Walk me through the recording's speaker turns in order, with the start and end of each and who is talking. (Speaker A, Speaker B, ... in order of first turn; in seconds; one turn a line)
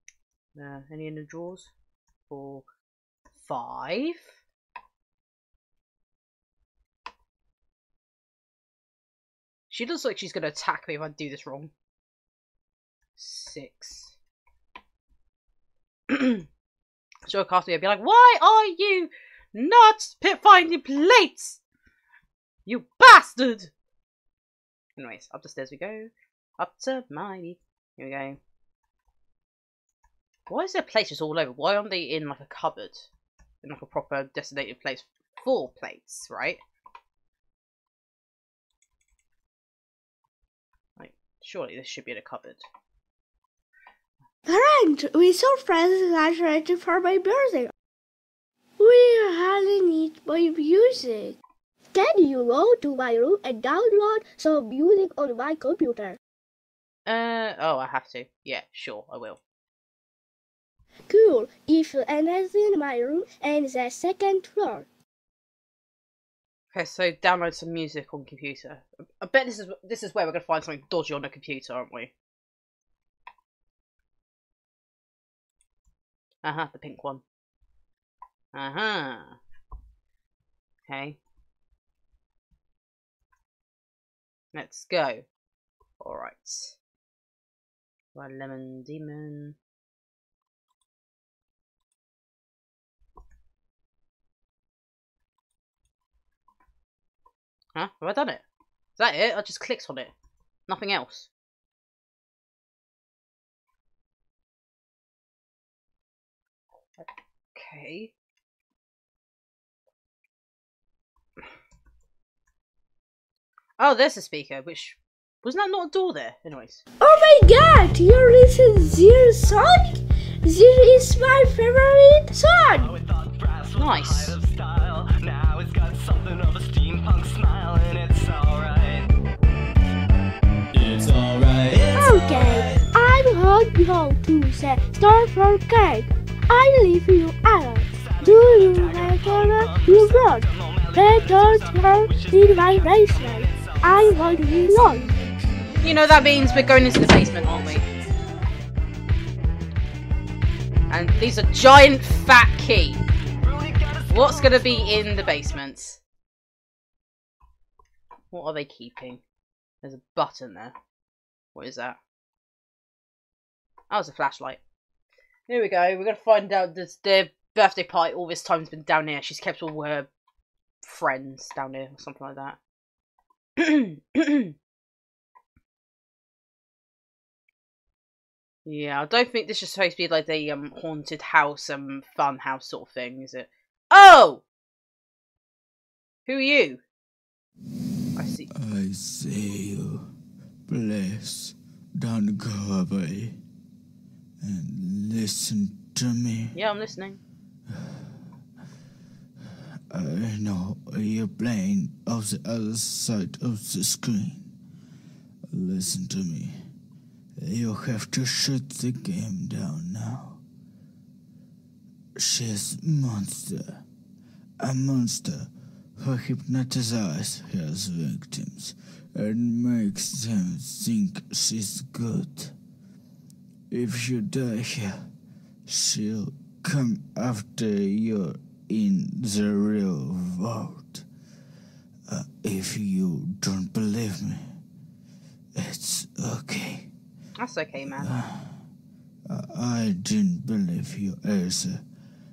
Speaker A: 0.6-1.7
Speaker A: 2.3-2.6
Speaker A: 3.4-4.4
Speaker A: 9.7-11.7
Speaker A: 13.2-14.2
Speaker A: 16.1-16.5
Speaker A: 17.3-21.6
Speaker A: 22.7-23.7
Speaker A: 25.0-28.4
Speaker A: 30.5-33.1
Speaker A: 33.6-36.6
Speaker A: 41.0-42.6
Speaker B: 44.5-47.7
Speaker B: 48.8-51.4
Speaker B: 51.9-56.2
Speaker A: 57.1-59.4
Speaker B: 61.1-64.9
Speaker A: 66.7-72.1
Speaker A: 76.4-77.2
Speaker A: 78.5-79.4
Speaker A: 80.9-81.2
Speaker A: 84.5-85.3
Speaker A: 86.0-86.8
Speaker A: 88.2-89.6
Speaker A: 97.8-98.4
Speaker A: 99.0-100.1
Speaker A: 100.7-101.3
Speaker A: 107.0-108.1
Speaker A: 113.8-116.8
Speaker B: 117.0-123.0
Speaker C: 122.8-129.1
Speaker A: 123.8-124.4
Speaker C: 130.7-132.8
Speaker B: 131.9-145.1
Speaker C: 138.0-144.3
Speaker A: 145.8-147.8
Speaker A: 150.9-153.0
Speaker C: 153.4-154.7
Speaker A: 154.1-156.0
Speaker A: 158.3-159.2
Speaker A: 159.8-160.7
Speaker A: 161.6-162.0
Speaker A: 163.9-164.6
Speaker A: 165.5-170.1
Speaker A: 170.8-172.6
Speaker A: 173.6-174.5
Speaker A: 178.7-184.4
Speaker A: 186.3-186.8
Speaker A: 188.2-188.5
Speaker D: 188.6-190.1
Speaker D: 190.7-193.4
Speaker D: 194.4-196.6
Speaker A: 196.5-197.2
Speaker D: 197.7-198.2
Speaker D: 199.9-204.5
Speaker D: 205.5-206.6
Speaker D: 207.4-210.4
Speaker D: 212.2-213.8
Speaker D: 214.6-222.6
Speaker D: 223.7-225.0
Speaker D: 225.7-231.1
Speaker D: 232.1-234.5
Speaker D: 235.6-236.9
Speaker A: 237.4-238.1
Speaker D: 237.9-238.5
Speaker D: 239.3-241.8